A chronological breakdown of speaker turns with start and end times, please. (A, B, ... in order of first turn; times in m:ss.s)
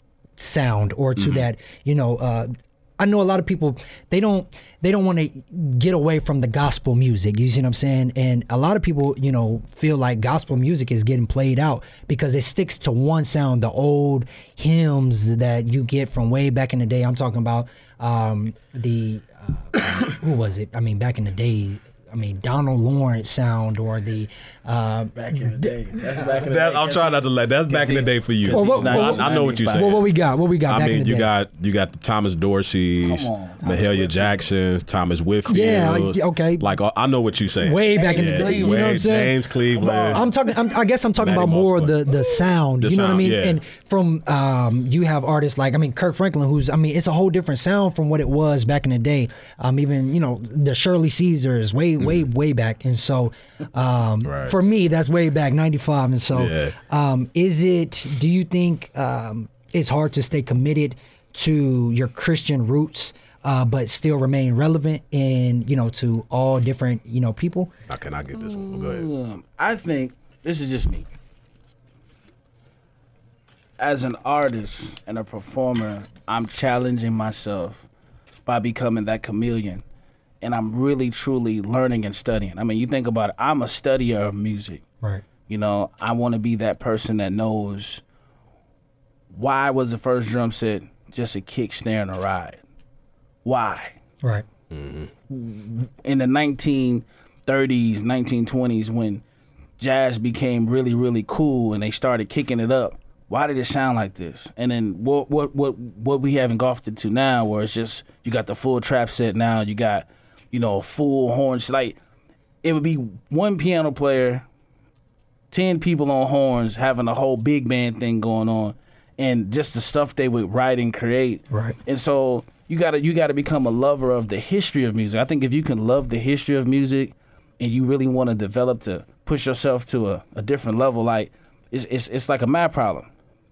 0:00.4-0:25.7 A
0:01.2-0:01.5 B
0:25.2-0:30.0 C
0:26.4-0:30.1 B
0:28.5-0:31.3 A
0:30.7-0:40.2 B
0:33.0-0:34.4 C
0:35.5-0:36.7 A
0:37.6-0:39.4 A
0:37.9-0:39.1 C
0:39.7-0:40.3 C
0:40.1-1:07.7 A
0:41.2-0:42.2 B
0:42.8-0:43.6 B
0:54.2-0:54.6 B
0:56.3-0:56.8 B
1:07.9-1:09.1 B
1:08.3-1:11.0 C
1:13.8-1:17.9 C
1:18.5-1:19.8 C
1:20.4-1:24.8 C
1:25.5-1:28.0 C
1:29.3-1:32.6 C
1:33.4-1:34.0 C
1:34.7-1:35.1 B
1:35.3-1:39.2 C
1:39.8-1:52.0 C
1:52.6-1:54.4 C
1:55.5-2:13.1 C
2:01.5-2:01.8 A